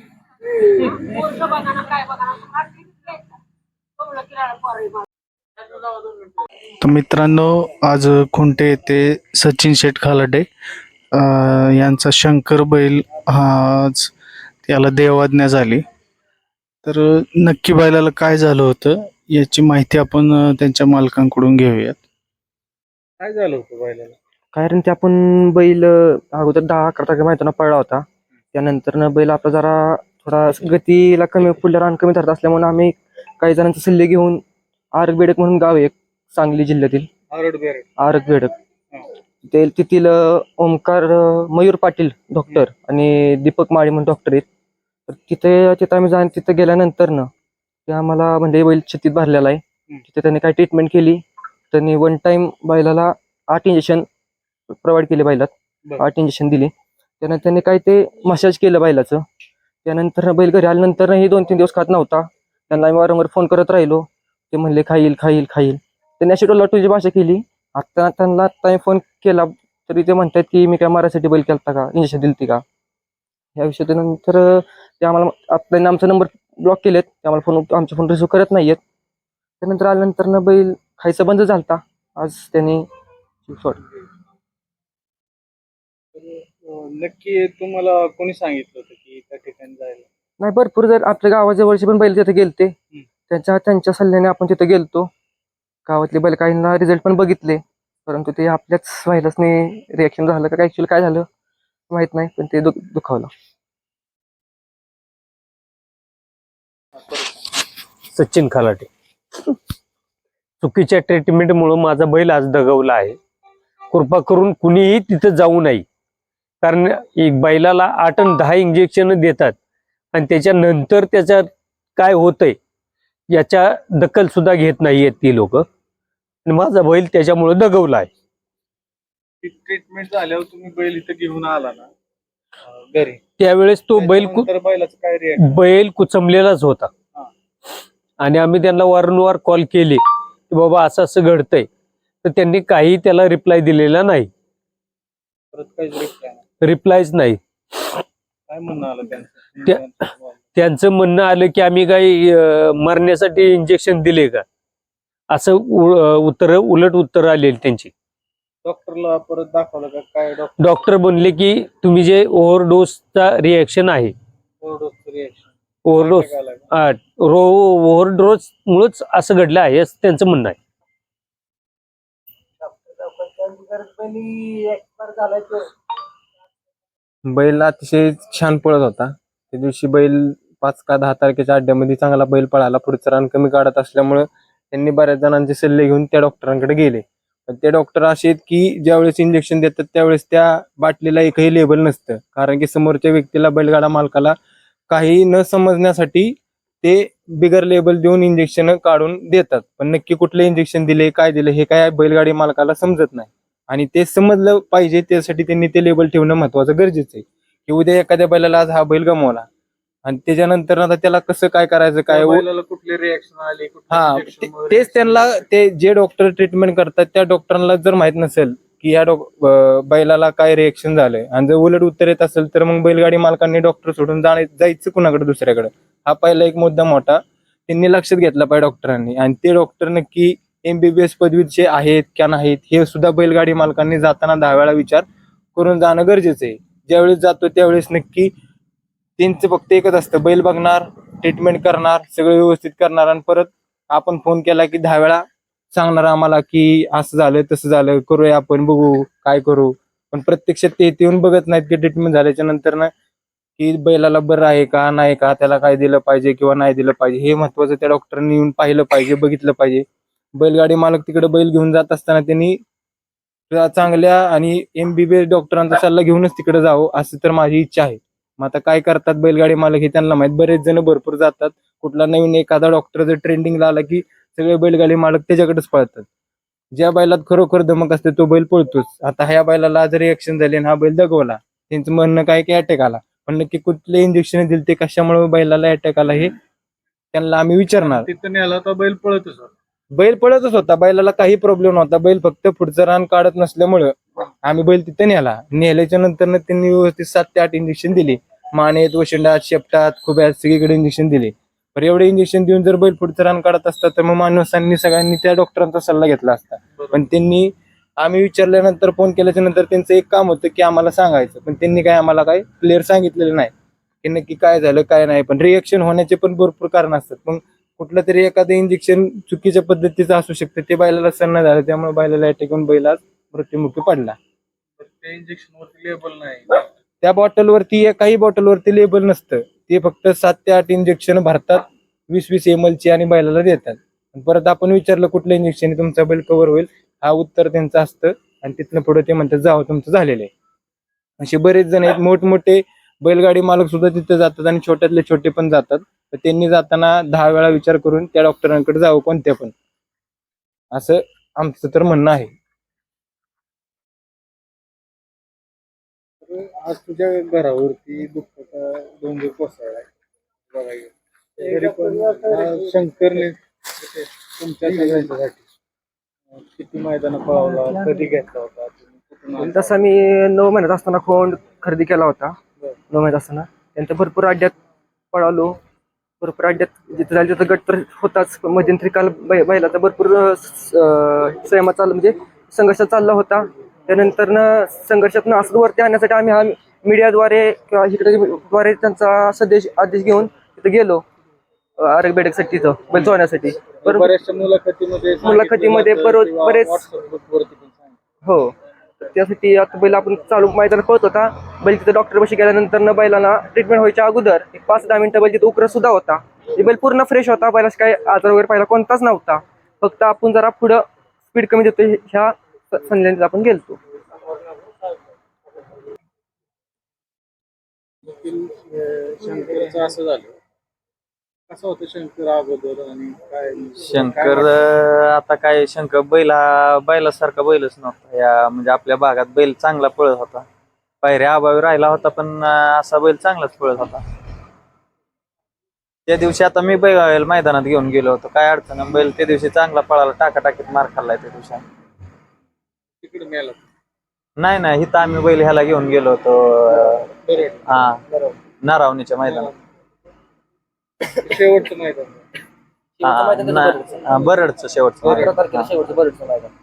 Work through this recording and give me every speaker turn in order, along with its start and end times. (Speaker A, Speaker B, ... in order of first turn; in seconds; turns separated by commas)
Speaker A: 6.8-10.5, Speaker A: 11.1-14.1, Speaker A: 14.6-15.8, Speaker A: 16.8-22.0, Speaker B: 23.2-24.1, Speaker C: 24.5-34.4, Speaker C: 34.9-37.1, Speaker B: 37.3-37.8, Speaker C: 38.0-38.5, Speaker C: 39.5-44.5, Speaker C: 45.1-47.3, Speaker C: 47.9-54.0, Speaker C: 54.7-59.2, Speaker C: 59.8-72.6, Speaker C: 73.5-78.8, Speaker C: 79.6-82.8, Speaker C: 83.5-83.8, Speaker B: 86.1-90.1, Speaker C: 90.4-92.7, Speaker C: 93.3-95.1, Speaker C: 95.8-101.3, Speaker C: 101.9-103.3, Speaker D: 108.1-108.9, Speaker D: 110.6-113.2, Speaker D: 113.9-115.8, Speaker D: 116.6-119.5, Speaker D: 120.1-122.5, Speaker D: 123.3-125.6, Speaker D: 126.5-128.1, Speaker B: 129.4-131.9, Speaker B: 132.7-133.2, Speaker D: 133.4-134.5, Speaker B: 133.9-135.6, Speaker D: 135.4-136.9, Speaker D: 138.2-141.7, Speaker D: 142.2-144.3, Speaker B: 145.5-146.4, Speaker D: 146.6-147.9, Speaker B: 148.5-150.4, Speaker D: 150.6-154.4, Speaker D: 155.3-157.9, Speaker B: 158.6-160.5, Speaker D: 160.6-164.1, Speaker B: 164.6-166.6, Speaker D: 165.9-170.6, Speaker C: 174.1-175.2, Speaker E: 177.2-194.3, Speaker E: 194.9-209.4, Speaker E: 210.1-212.5, Speaker B: 212.1-215.4, Speaker E: 213.9-238.3, Speaker E: 239.2-252.9, Speaker E: 253.6-259.8, Speaker E: 260.4-262.6, Speaker E: 263.5-276.1, Speaker E: 276.7-286.3, Speaker E: 287.1-288.1, Speaker B: 287.8-289.5, Speaker E: 289.9-313.5, Speaker E: 314.0-324.2, Speaker B: 324.8-326.6, Speaker E: 327.0-340.3, Speaker E: 341.2-349.5, Speaker E: 350.7-352.3, Speaker B: 356.2-359.9, Speaker B: 360.5-365.4, Speaker B: 366.3-369.7, Speaker C: 369.4-372.4, Speaker C: 372.9-374.5, Speaker C: 375.1-375.6, Speaker C: 376.2-391.0, Speaker C: 391.8-394.1, Speaker B: 393.8-397.9, Speaker C: 395.2-396.8, Speaker C: 398.2-413.8, Speaker B: 418.0-420.3, Speaker B: 421.5-424.5, Speaker F: 423.8-430.4, Speaker F: 431.0-434.0, Speaker F: 436.1-441.6, Speaker B: 443.0-443.6, Speaker F: 444.4-447.1, Speaker B: 447.2-447.6, Speaker F: 447.7-448.0, Speaker F: 448.6-449.5, Speaker B: 449.2-449.5, Speaker B: 451.2-452.2, Speaker C: 453.0-454.4, Speaker F: 453.0-455.7, Speaker B: 455.0-455.3, Speaker C: 455.0-456.5